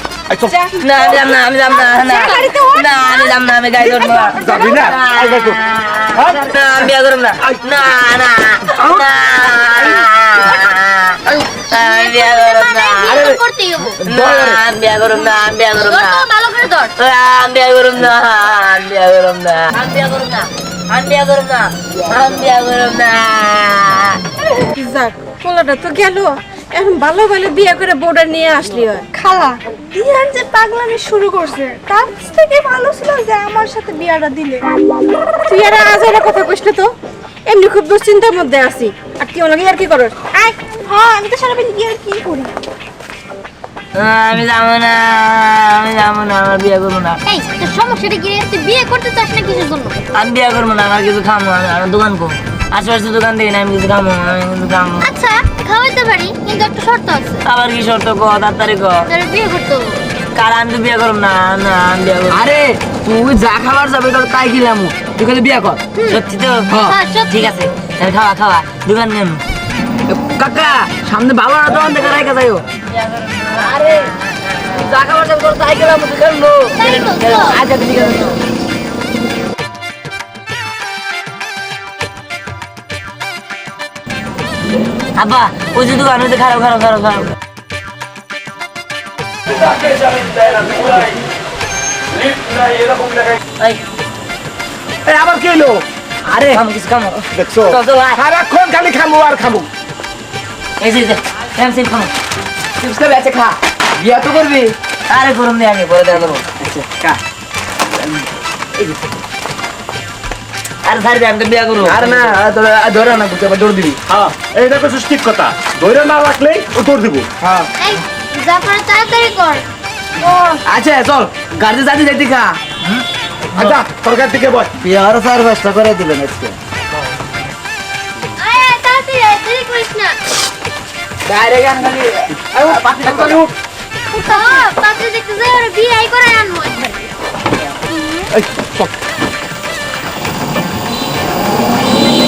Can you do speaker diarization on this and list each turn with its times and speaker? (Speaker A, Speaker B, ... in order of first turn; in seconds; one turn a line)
Speaker A: 0.3-0.6
Speaker B: 0.5-1.1
Speaker C: 0.8-4.4
Speaker B: 1.9-3.4
Speaker D: 2.1-2.4
Speaker A: 3.8-5.6
Speaker B: 4.2-4.8
Speaker C: 4.9-11.2
Speaker A: 6.1-6.5
Speaker E: 8.8-9.1
Speaker D: 11.7-14.0
Speaker C: 11.7-13.4
Speaker E: 14.0-14.6
Speaker C: 14.1-16.2
Speaker D: 15.9-16.9
Speaker C: 17.0-24.2
Speaker B: 24.7-34.7
Speaker B: 35.5-36.9
Speaker B: 37.5-42.5
Speaker C: 44.0-47.2
Speaker D: 47.3-50.0
Speaker C: 50.1-55.1
Speaker D: 55.0-57.4
Speaker C: 57.5-59.1
Speaker D: 59.1-60.0
Speaker C: 60.4-62.5
Speaker E: 62.3-65.8
Speaker C: 66.1-66.7
Speaker E: 66.7-67.0
Speaker D: 66.8-67.5
Speaker C: 67.3-69.4
Speaker E: 70.1-72.7
Speaker C: 72.9-74.9
Speaker E: 73.6-74.0
Speaker E: 74.8-76.8
Speaker D: 76.8-77.6
Speaker C: 76.8-77.5
Speaker E: 77.4-78.4
Speaker C: 85.2-87.3
Speaker A: 89.5-91.2
Speaker A: 92.2-93.4
Speaker A: 95.1-95.8
Speaker E: 96.3-96.6
Speaker C: 96.5-97.2
Speaker A: 97.3-99.7
Speaker C: 97.7-98.2
Speaker C: 100.8-102.1
Speaker E: 102.8-104.8
Speaker C: 105.1-106.5
Speaker E: 106.6-107.2
Speaker C: 110.8-112.3
Speaker E: 111.8-114.0
Speaker A: 114.1-117.4
Speaker D: 117.8-119.6
Speaker E: 120.2-122.6
Speaker A: 123.6-124.7
Speaker E: 124.8-126.5
Speaker D: 128.4-130.2
Speaker E: 131.3-133.5
Speaker A: 133.0-133.4
Speaker D: 134.2-137.1
Speaker D: 138.0-138.3
Speaker A: 138.3-138.9